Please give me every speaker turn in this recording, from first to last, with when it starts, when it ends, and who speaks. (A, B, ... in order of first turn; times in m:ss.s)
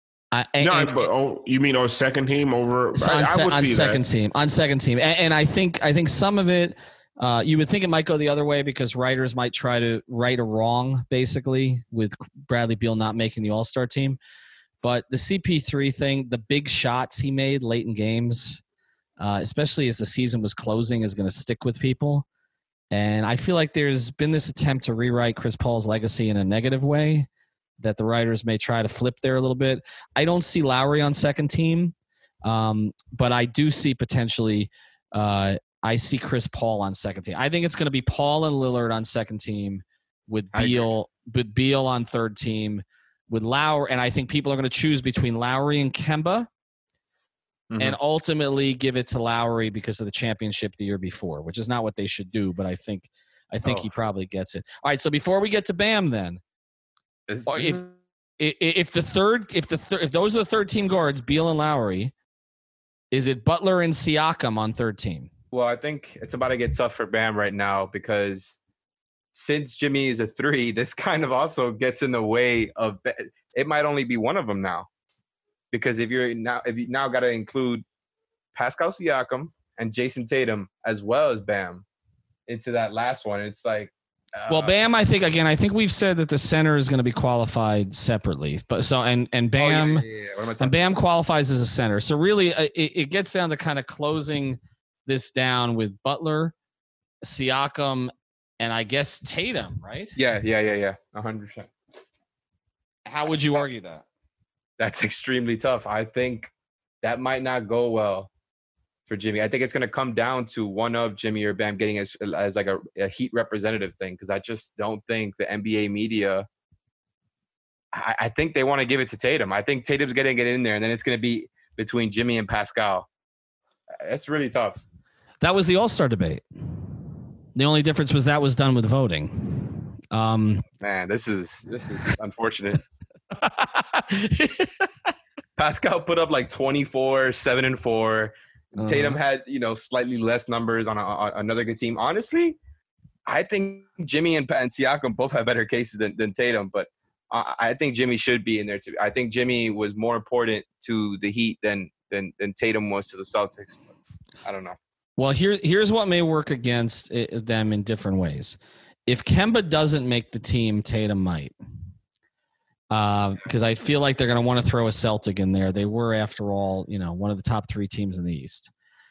0:00.3-0:01.1 A
0:00.6-0:04.0 B
0:03.0-0:14.2 A
0:14.8-0:18.6 A
0:19.2-0:22.3 A
0:22.9-0:27.3 A
0:27.8-0:31.9 A
0:32.4-0:46.5 A
0:40.5-0:40.9 C
0:47.7-0:48.0 C
0:47.8-0:56.4 A
0:53.6-0:53.9 C
0:57.3-0:57.9 C
0:57.5-0:57.8 A
0:58.4-1:02.1 A
1:03.1-1:05.3 A
1:05.5-1:08.6 C
1:09.3-1:14.9 C
1:15.7-1:17.8 C
1:18.5-1:21.8 C
1:22.5-1:24.9 C
1:24.5-1:30.1 A
1:29.6-1:30.8 C
1:30.6-1:36.5 A
1:37.2-1:40.2 A
1:40.2-1:41.7 C
1:43.1-1:44.0 A
1:44.8-1:46.5 C
1:47.0-1:48.3 C
1:49.1-1:56.5 C
1:57.9-2:03.1 C
2:04.0-2:04.8 C
2:05.4-2:06.4 A
2:07.6-2:10.6 A
2:10.8-2:12.8 C
2:13.3-2:15.1 A
2:15.6-2:22.6 C
2:18.8-2:19.2 A
2:23.3-2:33.8 C
2:34.4-2:34.8 C
2:35.2-2:41.6 A
2:42.9-2:48.7 A